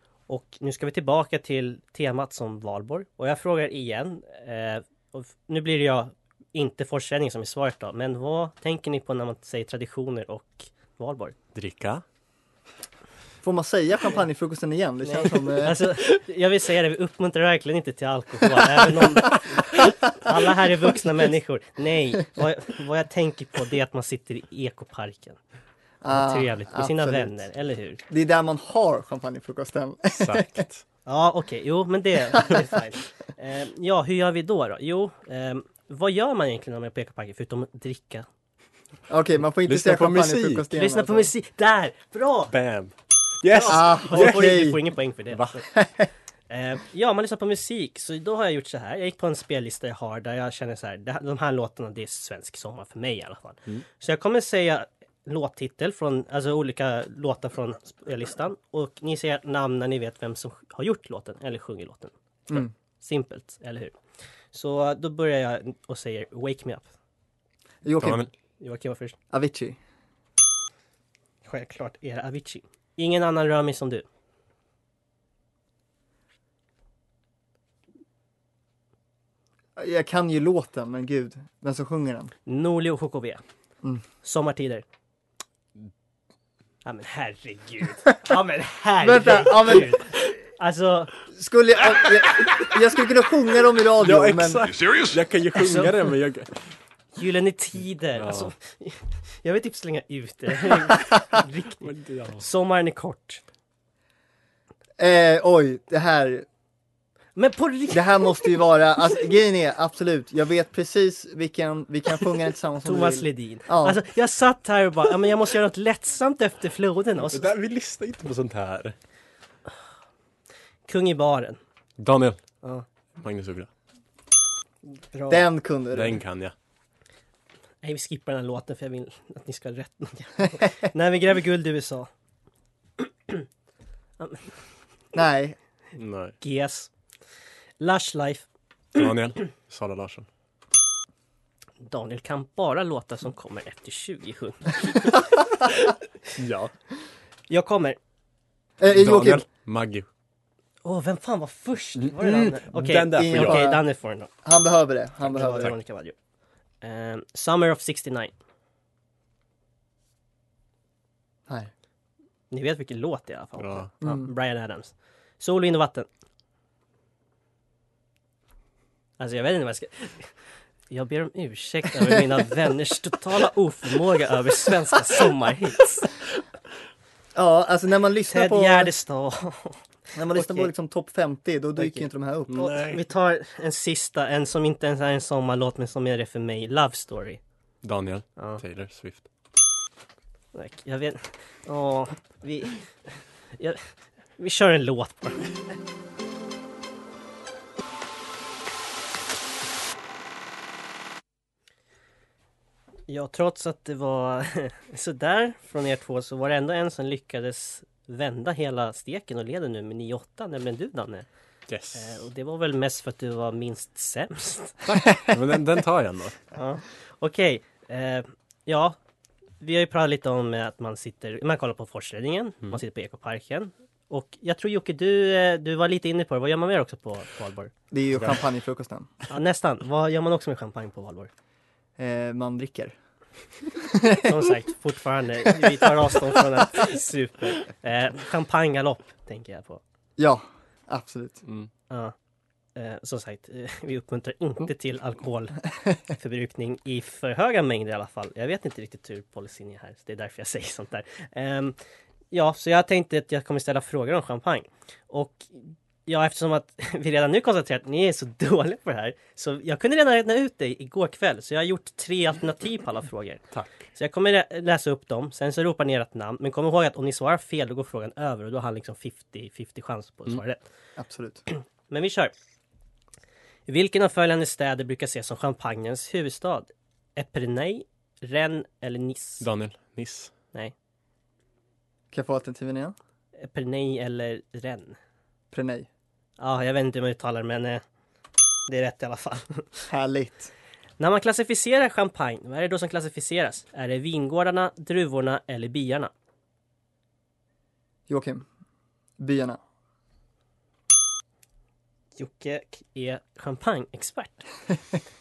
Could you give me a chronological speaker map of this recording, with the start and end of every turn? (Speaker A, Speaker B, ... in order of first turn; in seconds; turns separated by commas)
Speaker A: 0.3-11.3, Speaker B: 11.5-12.0, Speaker C: 13.4-16.0, Speaker A: 15.0-25.4, Speaker C: 26.0-27.4, Speaker A: 26.1-28.0, Speaker C: 28.1-30.6, Speaker B: 30.1-30.8, Speaker A: 31.1-38.2, Speaker C: 39.1-41.3, Speaker B: 39.6-40.7, Speaker A: 40.7-42.5, Speaker B: 42.5-44.7, Speaker A: 43.5-45.6, Speaker C: 43.6-44.8, Speaker B: 45.3-45.6, Speaker C: 45.7-46.1, Speaker A: 46.5-62.1, Speaker A: 63.0-63.9, Speaker A: 64.5-66.9, Speaker C: 67.8-68.2, Speaker B: 68.0-68.3, Speaker A: 68.6-69.2, Speaker C: 69.3-69.8, Speaker A: 71.4-74.0, Speaker C: 79.8-82.3, Speaker A: 82.5-83.4, Speaker A: 84.2-84.8, Speaker A: 86.8-91.1, Speaker C: 89.0-90.0, Speaker C: 91.3-94.8, Speaker B: 94.0-96.6, Speaker A: 95.6-95.9, Speaker A: 97.2-103.4, Speaker B: 98.2-98.5, Speaker B: 101.8-102.4, Speaker C: 105.0-106.5, Speaker A: 107.3-108.6, Speaker C: 107.9-114.0, Speaker A: 112.8-117.5, Speaker B: 117.2-118.9, Speaker A: 120.9-121.6, Speaker B: 122.0-122.4, Speaker B: 123.2-123.7, Speaker A: 125.1-125.5, Speaker C: 125.3-126.2, Speaker B: 125.9-126.5, Speaker A: 127.8-132.1, Speaker A: 134.2-134.5, Speaker C: 135.1-135.6, Speaker B: 135.9-136.3, Speaker A: 136.4-136.9, Speaker A: 137.8-138.4, Speaker B: 138.9-140.3, Speaker A: 141.8-145.2, Speaker B: 146.3-146.7, Speaker A: 147.5-148.0, Speaker C: 148.8-149.4, Speaker B: 148.9-150.1, Speaker A: 150.8-154.3, Speaker B: 152.0-153.6, Speaker C: 153.1-153.8, Speaker C: 154.4-155.7, Speaker A: 155.2-156.1, Speaker A: 156.8-158.3, Speaker A: 162.5-166.1, Speaker B: 163.6-163.9, Speaker C: 164.0-164.3, Speaker A: 169.2-170.3, Speaker A: 170.9-176.1, Speaker C: 177.3-178.9, Speaker A: 178.3-179.8, Speaker C: 180.2-182.8, Speaker A: 180.3-180.7, Speaker A: 181.8-182.1, Speaker B: 182.5-183.0, Speaker A: 182.8-187.4, Speaker B: 187.8-189.2, Speaker A: 190.5-192.8, Speaker A: 193.6-195.5, Speaker A: 203.1-211.2, Speaker B: 211.7-212.2, Speaker A: 211.9-214.7, Speaker B: 214.8-216.4, Speaker A: 216.5-219.0, Speaker A: 219.6-227.7, Speaker C: 227.9-229.1, Speaker A: 229.3-231.3, Speaker C: 232.0-232.9, Speaker C: 233.8-234.5, Speaker A: 234.2-239.8, Speaker C: 240.2-241.4, Speaker A: 242.8-251.8, Speaker A: 252.3-263.4, Speaker B: 263.5-263.9, Speaker A: 263.9-270.6, Speaker C: 271.0-271.4, Speaker A: 271.9-272.3, Speaker A: 273.7-279.5, Speaker B: 279.4-280.3, Speaker C: 282.1-282.9, Speaker A: 283.4-285.0, Speaker C: 285.5-285.9, Speaker A: 286.4-287.8, Speaker A: 288.7-289.8, Speaker C: 289.9-290.5, Speaker A: 291.0-296.1, Speaker C: 298.1-298.4, Speaker C: 299.2-299.6, Speaker A: 302.2-304.4